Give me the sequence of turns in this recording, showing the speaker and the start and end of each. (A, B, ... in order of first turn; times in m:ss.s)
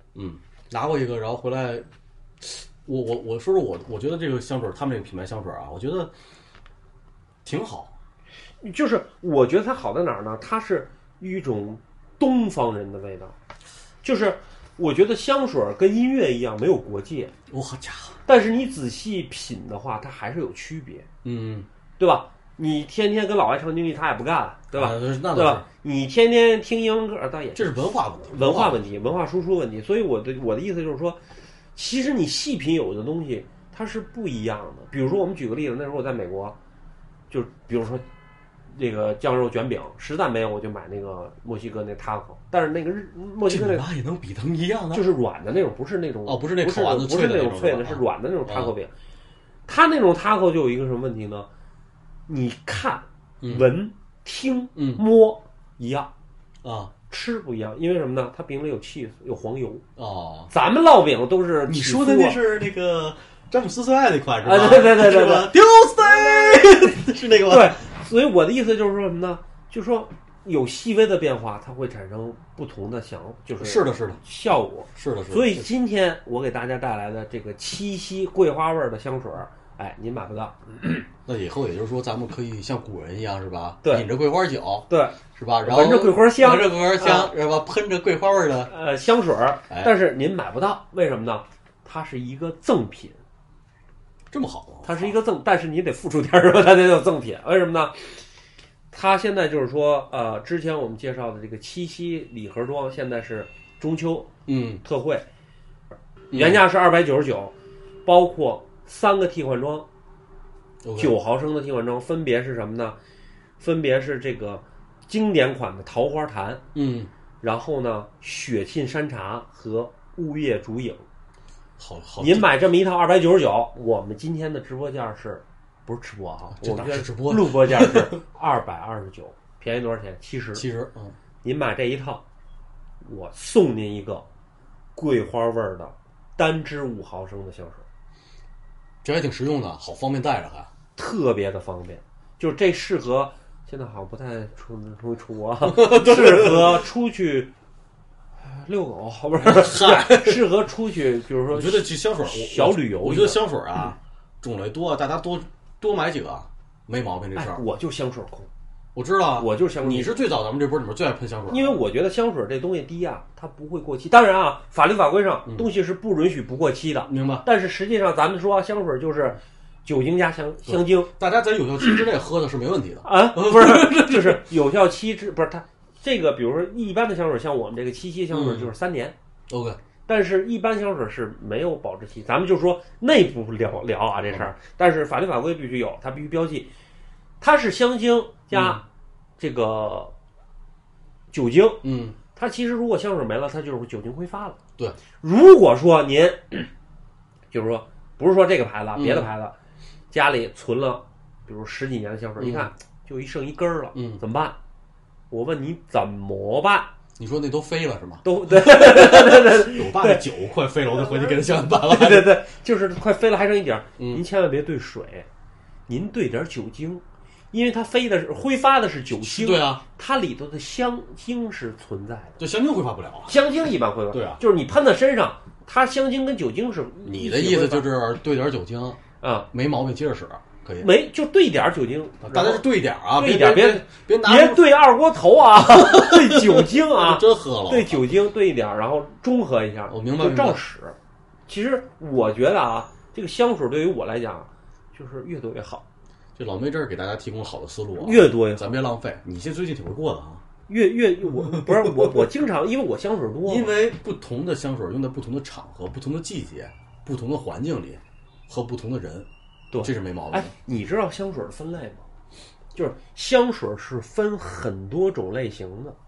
0:00.2-0:01.9 A
0:02.4-0:06.1 A
0:07.4-0:07.9 A
0:08.6-0:13.4 B
0:14.0-0:17.3 B
0:17.5-0:18.2 A
0:18.3-0:21.1 B
0:21.2-0:21.7 A
0:22.0-0:27.8 B
0:24.7-0:25.6 A
0:27.6-0:28.8 A
0:28.3-0:31.2 B
0:31.8-0:36.6 B
0:37.3-0:38.0 B
0:38.7-0:43.8 B
0:43.5-0:45.0 A
0:44.9-0:48.9 B
0:46.2-0:48.7 A
0:49.7-0:51.5 B
0:52.3-0:56.1 B
0:53.4-0:53.7 A
0:54.8-0:55.0 A
0:56.6-0:56.9 A
0:57.1-0:59.8 B
1:00.0-1:00.5 A
1:00.5-1:02.4 B
1:01.7-1:07.8 A
1:04.4-1:21.1 B
1:13.6-1:14.2 A
1:15.0-1:15.7 A
1:21.3-1:28.7 A
1:24.9-1:27.3 B
1:28.7-1:33.2 B
1:34.3-1:35.2 A
1:34.8-1:38.0 B
1:38.9-1:45.3 B
1:44.5-1:44.8 A
1:46.3-1:46.6 A
1:46.3-1:47.5 B
1:48.0-1:49.9 B
1:50.8-1:51.2 A
1:51.0-1:53.0 B
1:53.6-1:56.6 B
1:56.7-1:57.1 A
1:57.4-2:01.0 B
2:01.8-2:02.5 A
2:02.2-2:10.6 B
2:06.5-2:08.2 A
2:10.6-2:11.2 A
2:11.4-2:12.2 B
2:13.0-2:14.3 B
2:15.0-2:17.8 B
2:19.0-2:20.7 A
2:21.0-2:27.5 B
2:25.6-2:26.8 A
2:28.4-2:33.4 B
2:29.4-2:30.4 A
2:31.5-2:37.6 A
2:37.4-2:38.5 B
2:39.0-2:41.8 A
2:39.4-2:40.1 B
2:41.5-2:51.1 B
2:47.1-2:47.5 A
2:50.7-2:54.5 A
2:53.0-2:59.2 B
2:58.3-2:58.7 A
2:59.5-2:59.8 A
3:00.1-3:06.7 B
3:07.4-3:08.8 B
3:08.5-3:08.8 A
3:09.4-3:10.1 B
3:11.3-3:14.6 B
3:11.8-3:12.2 A
3:15.2-3:16.7 B
3:17.5-3:19.6 B
3:19.0-3:19.3 A
3:20.1-3:24.6 B
3:22.4-3:22.7 A
3:23.9-3:24.2 A
3:25.3-3:26.9 B
3:27.2-3:32.4 A
3:28.2-3:30.2 B
3:31.0-3:35.3 B
3:34.0-3:34.2 A
3:35.9-3:42.4 B
3:39.2-3:39.8 A
3:42.4-3:43.4 A
3:43.3-3:47.9 B
3:44.1-3:44.4 A
3:47.0-3:49.0 A
3:49.2-3:49.5 B
3:49.5-3:50.9 A
3:50.8-4:01.0 B
3:52.2-3:54.7 A
3:55.6-3:58.1 A
3:59.9-4:00.6 A
4:01.5-4:05.8 B
4:06.4-4:10.4 A
4:08.0-4:08.8 B
4:10.7-4:13.7 B
4:11.3-4:12.3 A
4:13.5-4:19.3 A
4:19.7-4:22.0 B
4:19.8-4:20.5 A
4:22.8-4:26.0 B